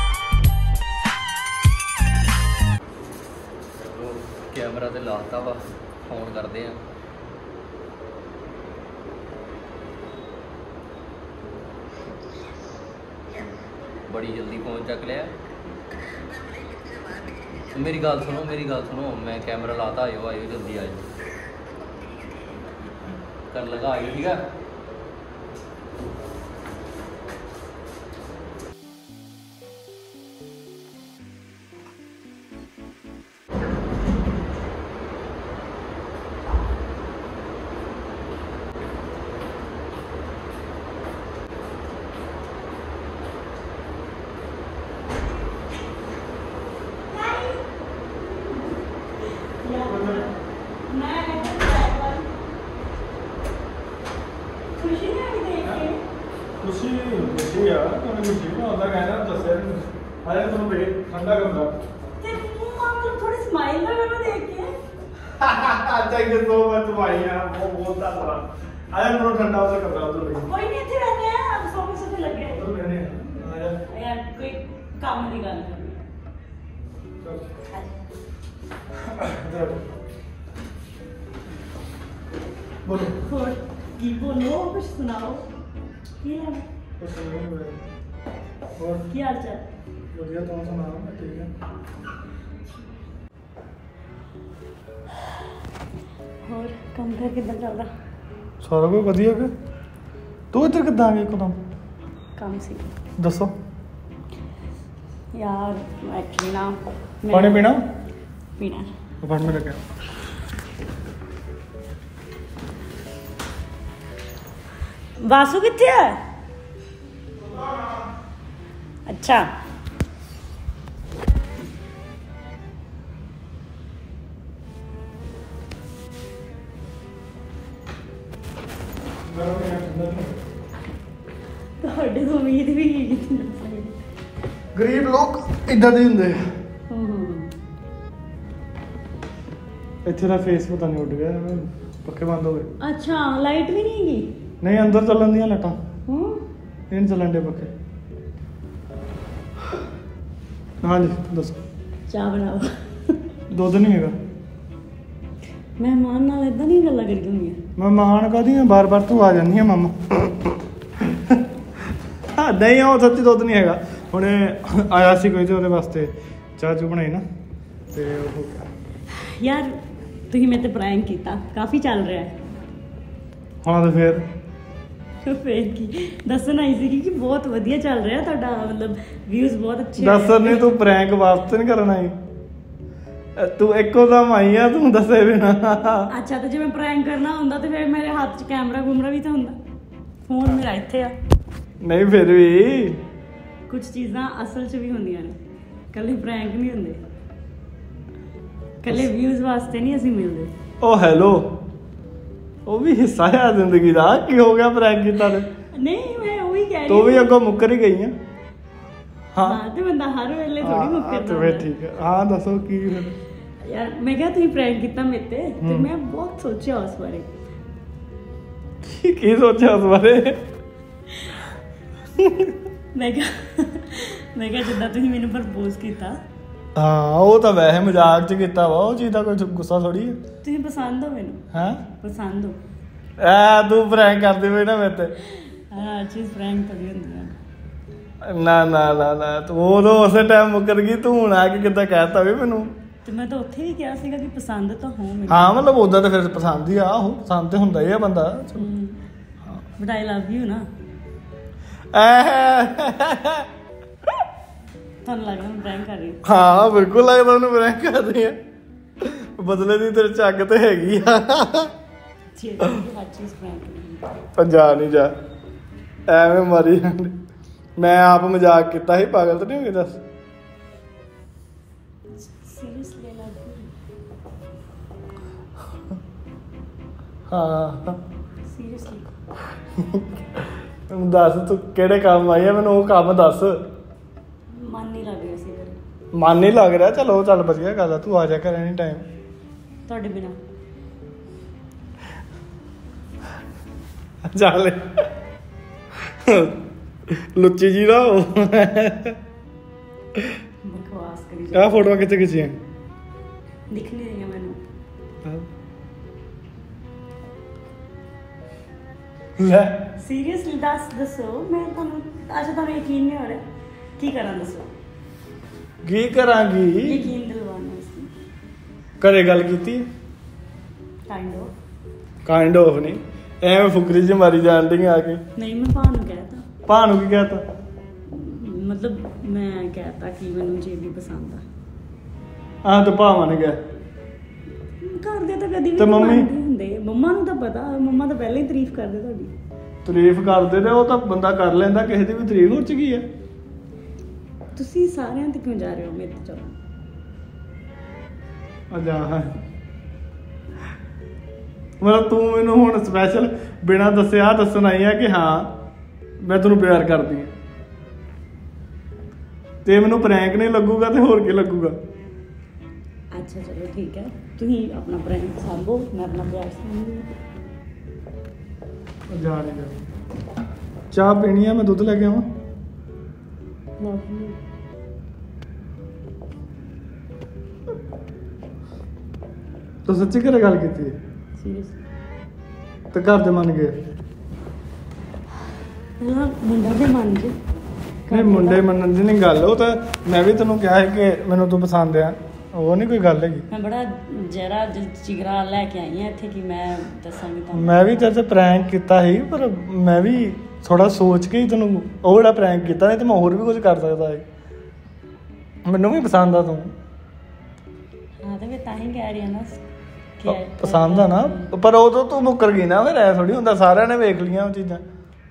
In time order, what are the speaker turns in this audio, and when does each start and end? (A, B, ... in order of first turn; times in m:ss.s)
0:03.8-0:06.8 A
0:14.1-0:15.3 A
0:17.7-0:21.0 A
0:23.5-0:24.4 A
0:47.1-0:47.6 B
0:48.2-0:48.7 B
0:49.4-0:50.3 B
0:49.8-0:50.2 C
0:50.8-0:52.4 B
0:54.7-0:56.0 B
0:56.6-1:01.7 C
1:02.2-1:04.7 B
1:05.4-1:10.4 C
1:10.4-1:12.6 B
1:12.5-1:13.8 C
1:13.9-1:16.0 B
1:17.2-1:17.5 C
1:19.0-1:19.8 C
1:22.8-1:23.2 C
1:23.1-1:25.4 B
1:26.2-1:26.6 B
1:27.0-1:27.8 C
1:28.8-1:29.1 C
1:29.1-1:29.6 B
1:30.1-1:31.5 C
1:36.4-1:37.9 B
1:38.6-1:39.5 C
1:40.5-1:41.6 C
1:42.4-1:42.8 B
1:43.2-1:43.5 C
1:45.3-1:47.7 B
1:47.3-1:47.8 C
1:48.6-1:48.9 B
1:49.2-1:49.8 C
1:55.2-1:56.2 B
1:57.4-1:58.0 C
1:59.1-1:59.4 B
2:09.2-2:10.4 C
2:11.8-2:14.0 B
2:14.7-2:16.4 C
2:16.9-2:17.5 B
2:20.0-2:22.7 C
2:22.8-2:24.3 B
2:24.6-2:25.8 C
2:26.1-2:26.4 B
2:26.9-2:27.7 C
2:30.8-2:31.6 C
2:32.1-2:33.2 B
2:33.5-2:34.2 C
2:35.8-2:37.6 B
2:37.8-2:41.4 C
2:42.3-2:47.2 C
2:47.9-2:48.7 C
2:49.1-2:49.8 B
2:50.3-2:52.3 B
2:53.6-2:54.2 C
2:55.2-3:00.7 B
3:00.0-3:02.1 C
3:03.4-3:06.1 C
3:06.1-3:09.6 B
3:10.3-3:11.1 B
3:11.8-3:13.0 C
3:13.7-3:15.4 B
3:15.9-3:17.0 B
3:18.8-3:20.5 B
3:20.8-3:21.5 C
3:22.6-3:25.5 C
3:25.7-3:27.3 B
3:26.9-3:28.1 C
3:29.3-3:29.6 C
3:29.4-3:31.7 B
3:30.6-3:33.2 C
3:33.6-3:37.3 B
3:35.6-3:35.9 C
3:38.8-3:40.4 C
3:42.2-3:42.5 C
3:42.9-3:46.2 B
3:46.7-3:50.2 C
3:50.4-3:52.6 B
3:51.5-3:51.8 C
3:53.2-3:55.1 C
3:55.5-3:57.3 B
3:58.2-4:02.7 C
4:03.0-4:05.6 B
4:05.3-4:08.7 C
4:08.6-4:09.0 B
4:09.8-4:10.7 B
4:11.9-4:13.4 C
4:15.0-4:16.2 B
4:16.2-4:18.4 C
4:19.0-4:21.7 C
4:22.3-4:24.1 B
4:24.4-4:25.1 C
4:26.1-4:27.1 C
4:27.8-4:30.0 C
4:32.2-4:33.7 B
4:37.3-4:38.0 C
4:38.4-4:39.1 B
4:39.8-4:43.6 C
4:44.5-4:45.8 B
4:46.1-4:49.0 C
4:49.9-4:50.4 B
4:54.3-4:54.8 C
4:56.0-4:59.2 C
5:00.6-5:01.9 B
5:01.5-5:02.6 C
5:03.7-5:04.6 B
5:09.4-5:09.9 C
5:10.0-5:13.4 B
5:14.0-5:14.7 B
5:15.8-5:17.1 C
5:16.8-5:18.1 B
5:19.0-5:19.8 C
5:21.1-5:21.5 B
5:22.2-5:25.2 C
5:25.4-5:26.4 B
5:26.7-5:27.4 C
5:28.1-5:31.4 B
5:32.6-5:33.6 C
5:34.8-5:39.3 B
5:35.8-5:36.3 C
5:39.8-5:43.0 C
5:44.5-5:46.5 B
5:48.7-5:49.3 C
5:51.8-5:55.5 C
5:56.2-5:57.3 C
5:59.6-6:01.8 C
6:03.1-6:07.1 B
6:09.1-6:09.8 C
6:10.9-6:12.2 C
6:13.8-6:14.4 B
6:19.8-6:20.9 C
6:21.4-6:21.8 B
6:22.9-6:23.7 C
6:26.0-6:27.4 B
6:28.0-6:28.6 B
6:28.1-6:33.4 C
6:33.5-6:38.1 B
6:37.5-6:44.2 C
6:45.6-6:46.7 C
6:48.2-6:49.6 B
6:50.2-6:51.5 B
6:50.2-6:54.8 C